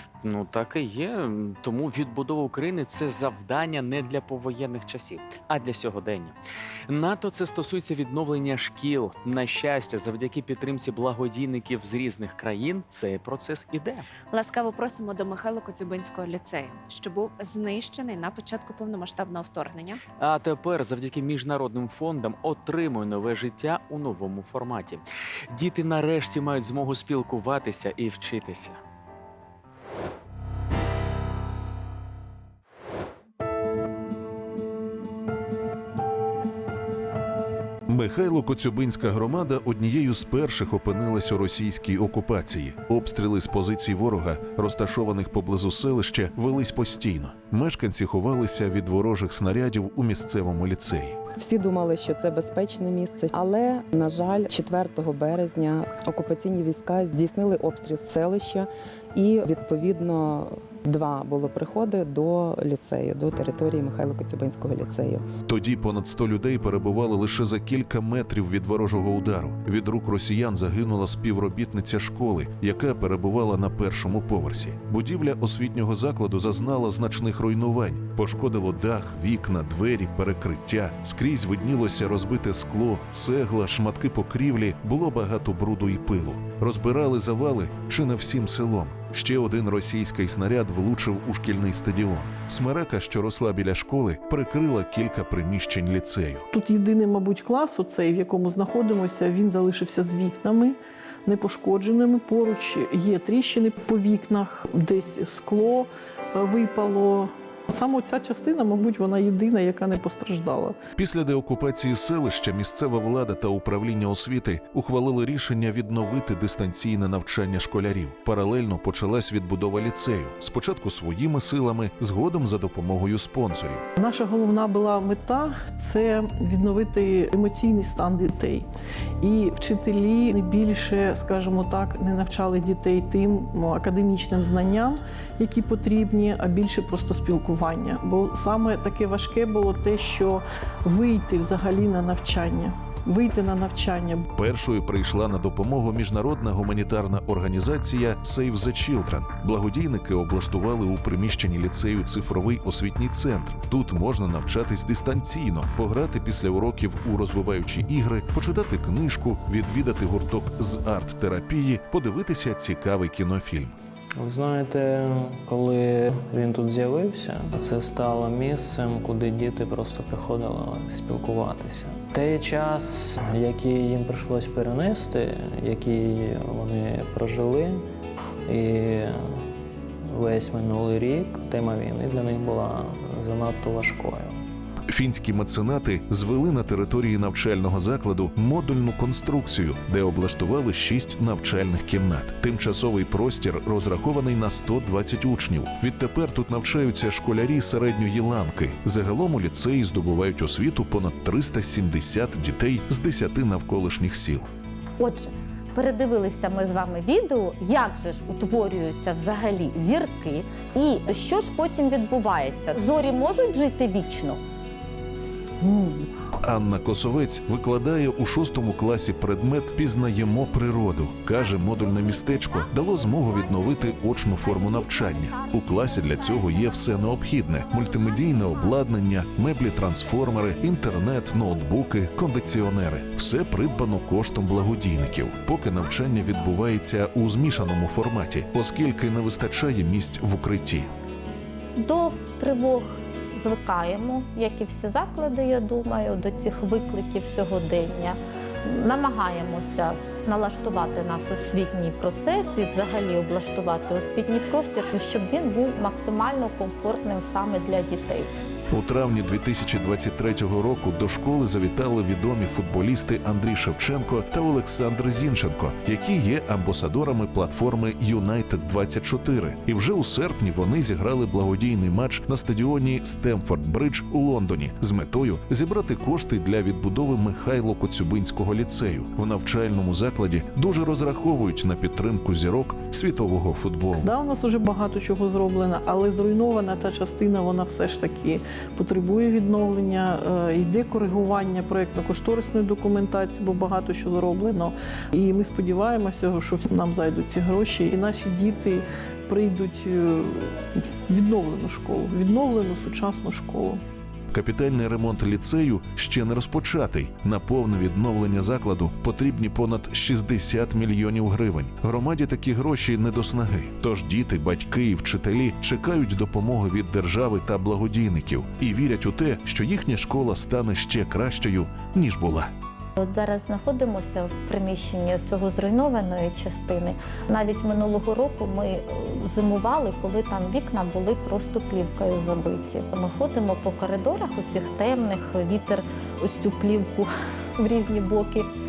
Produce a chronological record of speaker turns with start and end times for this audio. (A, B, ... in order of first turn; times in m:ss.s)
0:00.3-0:06.3 A
0:06.9-0:14.0 A
0:14.3-0:20.0 B
0:20.3-0:25.0 A
0:25.6-0:28.7 A
0:37.9-0:51.2 C
0:51.4-1:05.2 D
1:05.5-1:36.4 C
1:36.5-1:50.8 E
1:51.0-2:03.9 C
2:04.0-2:08.7 E
2:09.2-2:24.3 E
2:24.4-2:43.8 C
2:44.2-2:57.8 F
2:58.5-2:59.4 F
3:00.1-3:04.4 F
3:04.9-3:24.5 C
3:25.0-3:34.4 G
3:35.6-3:36.1 G
3:36.4-4:00.9 C
4:01.8-4:18.3 G
4:18.7-4:44.1 C
4:44.0-5:03.8 E
5:04.3-5:22.5 C
5:23.0-5:38.5 G